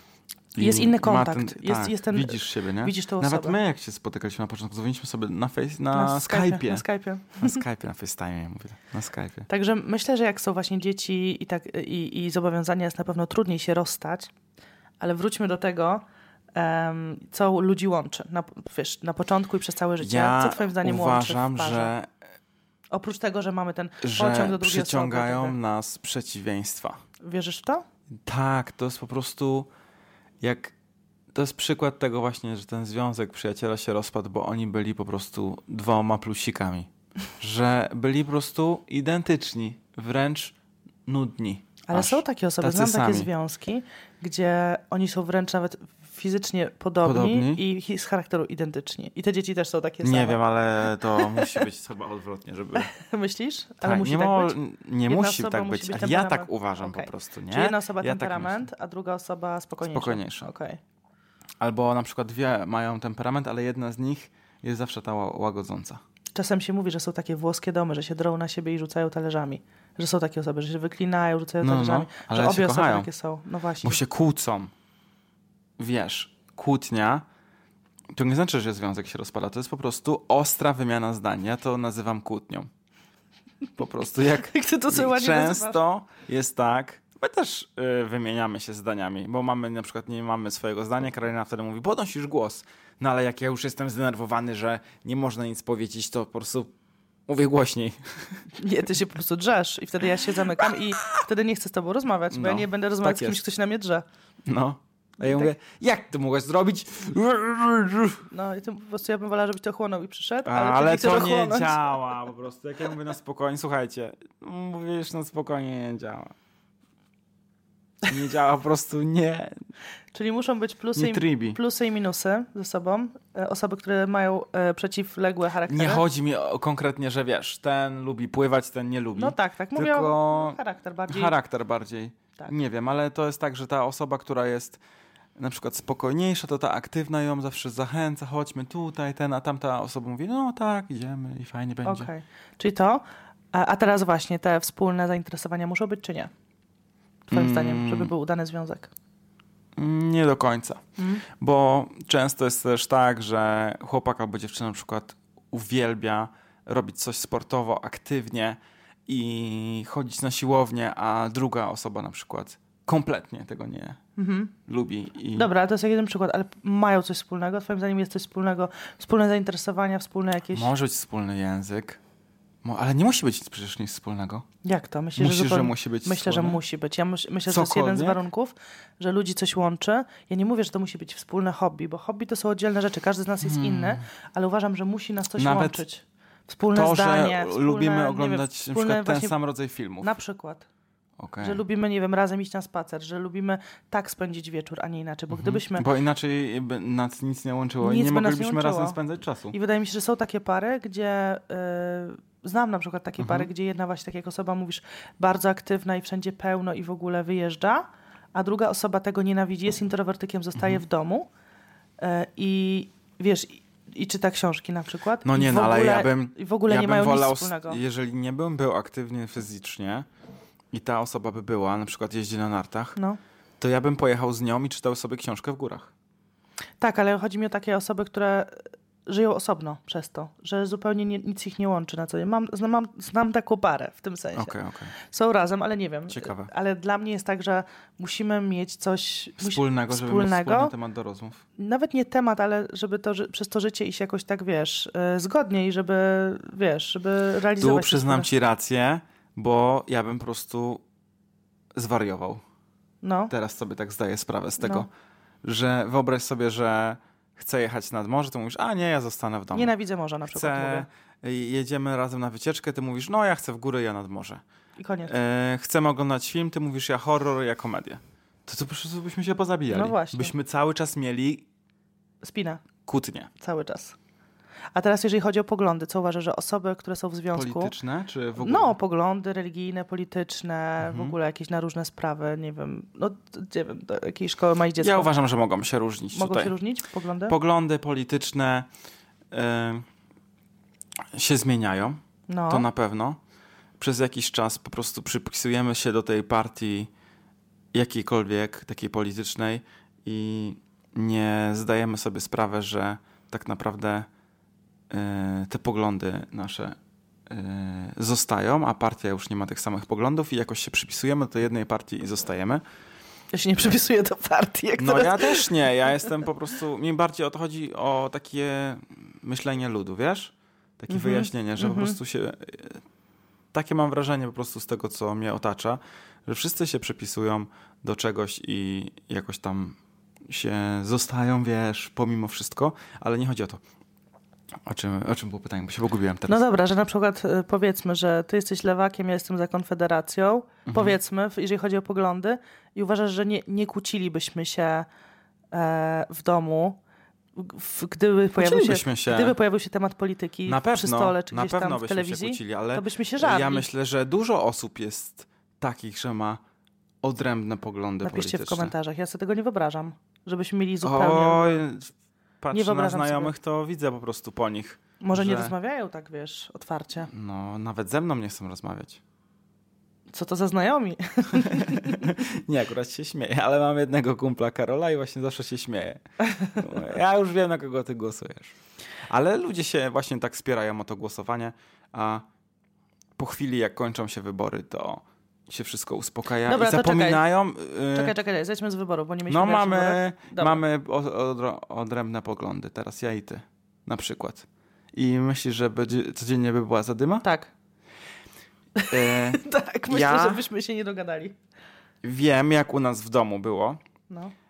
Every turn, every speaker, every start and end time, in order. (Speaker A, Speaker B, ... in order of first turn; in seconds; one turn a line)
Speaker A: 0.5-6.8
Speaker B: 0.6-3.6
Speaker B: 5.9-7.6
Speaker A: 7.4-9.5
Speaker B: 9.5-14.3
Speaker B: 15.0-16.0
Speaker B: 16.5-21.9
Speaker A: 20.0-22.1
Speaker B: 22.9-25.6
Speaker A: 24.0-27.0
Speaker B: 27.2-27.8
Speaker A: 28.2-29.7
Speaker A: 30.4-30.7
Speaker A: 31.3-40.5
Speaker A: 41.0-43.3
Speaker B: 41.9-50.4
Speaker A: 47.0-47.6
Speaker A: 50.0-52.9
Speaker B: 51.1-51.6
Speaker B: 52.7-60.8
Speaker A: 53.8-58.6
Speaker A: 59.8-60.5
Speaker A: 61.6-66.0
Speaker B: 66.3-74.0
Speaker A: 71.6-73.1
Speaker A: 73.8-74.7
Speaker A: 75.8-77.2
Speaker A: 78.1-82.7
Speaker A: 83.8-96.7
Speaker B: 84.3-85.8
Speaker A: 97.3-98.4
Speaker B: 98.6-104.0
Speaker A: 102.3-103.4
Speaker A: 104.5-108.2
Speaker B: 105.2-105.5
Speaker B: 108.3-111.9
Speaker A: 110.4-116.3
Speaker A: 118.0-119.5
Speaker B: 120.1-126.0
Speaker A: 121.0-121.6
Speaker A: 125.7-134.8
Speaker B: 129.1-131.3
Speaker A: 135.3-142.1
Speaker B: 141.8-146.3
Speaker B: 147.3-148.9
Speaker A: 147.3-148.1
Speaker A: 149.8-164.0
Speaker B: 151.0-151.2
Speaker B: 164.2-164.5
Speaker A: 164.7-165.5
Speaker B: 165.3-170.7
Speaker A: 170.5-172.0
Speaker A: 172.6-174.4
Speaker B: 174.6-189.3
Speaker A: 175.2-176.6
Speaker A: 177.5-178.2
Speaker A: 183.4-184.0
Speaker A: 185.4-185.8
Speaker A: 186.7-190.1
Speaker B: 190.0-190.7
Speaker A: 191.2-191.6
Speaker B: 191.4-195.9
Speaker A: 195.3-199.5
Speaker B: 197.8-199.0
Speaker B: 199.5-211.3
Speaker A: 203.2-203.5
Speaker B: 212.0-217.8
Speaker A: 215.2-220.1
Speaker A: 220.7-222.9
Speaker A: 223.6-225.9
Speaker B: 226.8-240.7
Speaker A: 234.3-234.9
Speaker A: 236.1-236.5
Speaker A: 239.4-241.4
Speaker B: 241.6-248.3
Speaker A: 247.6-250.8
Speaker A: 251.7-252.4
Speaker B: 253.0-253.3
Speaker A: 253.3-254.9
Speaker B: 254.6-254.9
Speaker A: 255.4-259.7
Speaker B: 259.5-260.9
Speaker A: 260.3-264.4
Speaker B: 264.8-265.1
Speaker A: 265.1-271.4
Speaker B: 269.7-270.3
Speaker B: 272.2-272.6
Speaker A: 272.8-273.3
Speaker B: 273.4-273.9
Speaker B: 274.7-277.7
Speaker A: 277.3-278.8
Speaker B: 278.4-285.1
Speaker A: 280.8-281.1
Speaker A: 284.8-286.5
Speaker B: 286.1-287.3
Speaker A: 287.3-288.7
Speaker A: 289.3-289.9
Speaker A: 291.1-293.2
Speaker B: 292.3-292.7
Speaker A: 293.8-296.9
Speaker A: 297.7-304.1
Speaker A: 304.9-306.8
Speaker A: 307.3-312.6
Speaker B: 313.3-315.5
Speaker A: 314.8-322.8
Speaker B: 320.9-322.0
Speaker A: 323.5-333.6
Speaker A: 334.6-336.4
Speaker B: 336.3-344.9
Speaker A: 340.6-341.0
Speaker B: 345.5-346.8
Speaker B: 347.4-353.7
Speaker A: 348.4-349.4
Speaker A: 350.4-356.4
Speaker A: 357.0-358.7
Speaker B: 358.0-361.6
Speaker A: 360.8-365.5
Speaker B: 362.5-363.3
Speaker B: 365.0-367.1
Speaker A: 367.1-369.0
Speaker B: 370.1-372.1
Speaker A: 371.3-378.6
Speaker A: 379.1-382.2
Speaker A: 383.2-388.1
Speaker B: 386.4-387.2
Speaker B: 387.9-390.6
Speaker A: 389.3-397.2
Speaker B: 397.2-397.5
Speaker B: 398.8-401.4
Speaker A: 398.9-400.4
Speaker A: 402.0-403.8